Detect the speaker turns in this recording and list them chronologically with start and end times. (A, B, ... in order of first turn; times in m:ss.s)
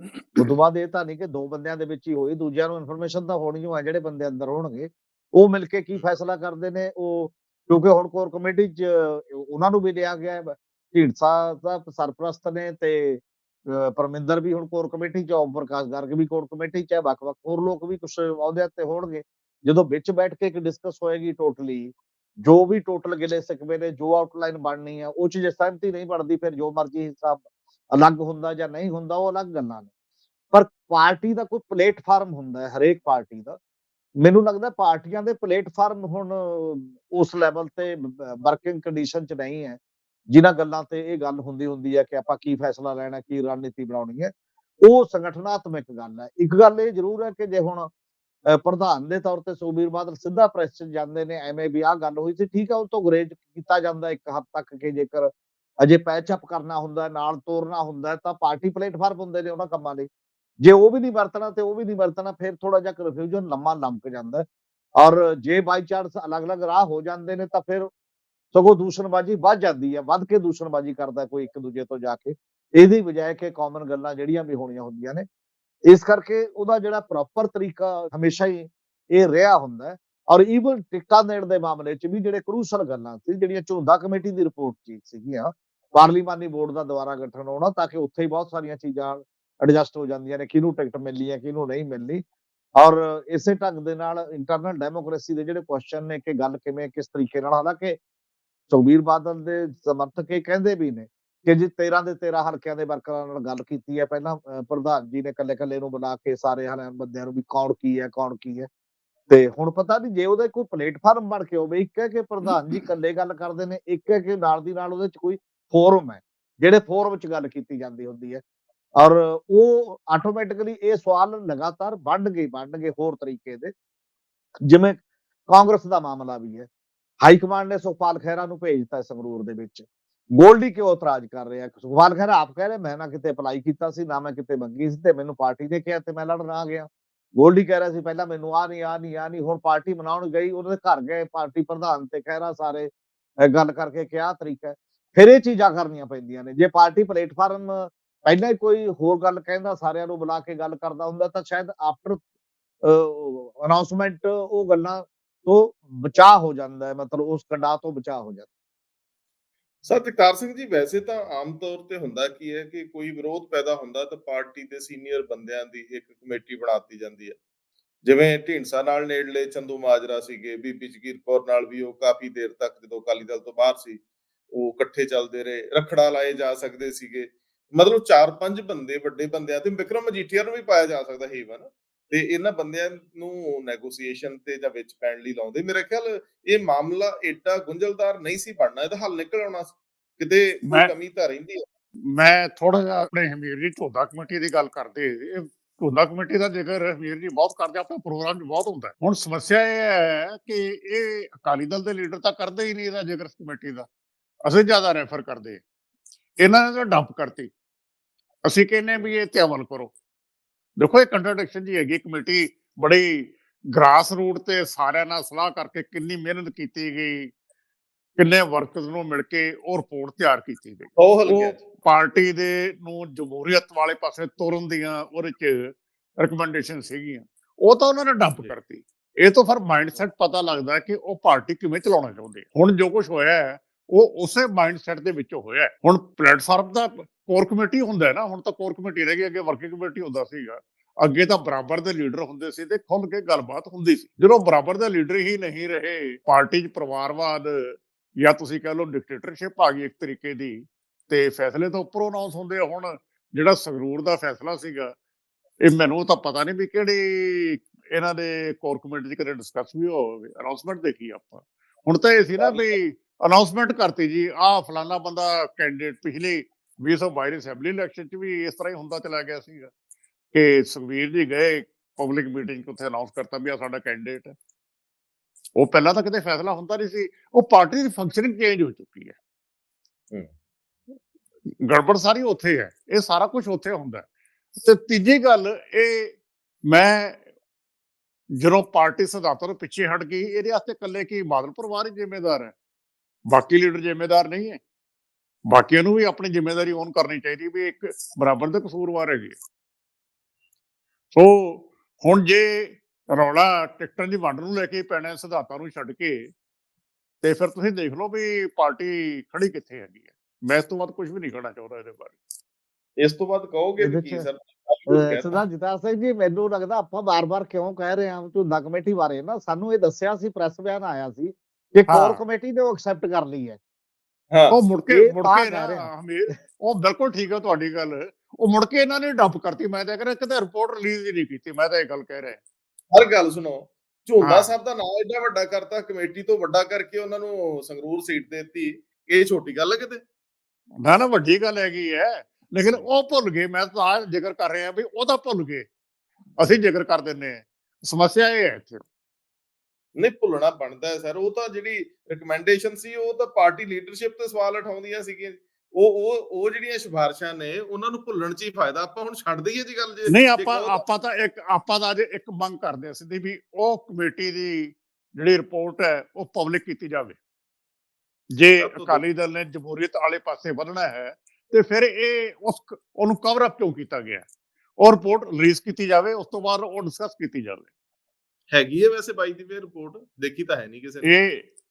0:00.3-0:29.9 A
0:30.5-0:33.6 A
0:34.2-0:44.3 A
0:44.8-0:47.9 A
0:48.5-0:55.3 A
0:55.8-1:00.1 A
1:00.6-1:04.4 A
1:05.0-1:07.9 A
1:08.5-1:15.2 A
1:15.9-1:32.2 A
1:32.8-1:38.0 A
1:38.7-1:48.7 A
1:49.3-1:58.4 A
1:59.0-2:03.7 A
2:04.6-2:06.7 A
2:07.2-2:22.9 A
2:23.4-2:32.2 A
2:32.8-2:38.5 A
2:39.9-2:47.4 B
2:48.0-2:54.0 B
2:54.6-3:11.6 B
3:10.6-3:10.9 C
3:12.1-3:23.9 C
3:24.4-3:25.6 C
3:26.4-3:27.5 C
3:28.4-3:29.9 C
3:30.8-3:37.3 C
3:38.2-4:14.9 C
3:41.0-3:41.6 B
4:15.6-4:29.7 C
4:30.3-4:34.3 C
4:35.6-4:39.2 C
4:41.6-4:46.1 C
4:46.7-4:47.2 C
4:48.4-4:52.5 C
4:53.3-4:54.6 C
4:55.5-4:59.4 C
5:01.1-5:06.3 C
5:07.2-5:12.2 C
5:13.0-5:15.4 B
5:13.8-5:14.2 A
5:14.9-5:23.6 A
5:21.9-5:22.2 C
5:24.3-5:24.6 B
5:24.5-5:32.4 C
5:24.9-5:25.9 A
5:32.9-5:40.0 B
5:34.2-5:34.5 C
5:40.8-5:45.7 C
5:46.4-5:48.8 C
5:50.0-6:00.8 B
6:00.1-6:07.2 C
6:08.3-6:14.2 C
6:08.6-6:09.0 B
6:14.8-6:17.7 C
6:18.5-6:21.1 B
6:21.0-6:21.4 C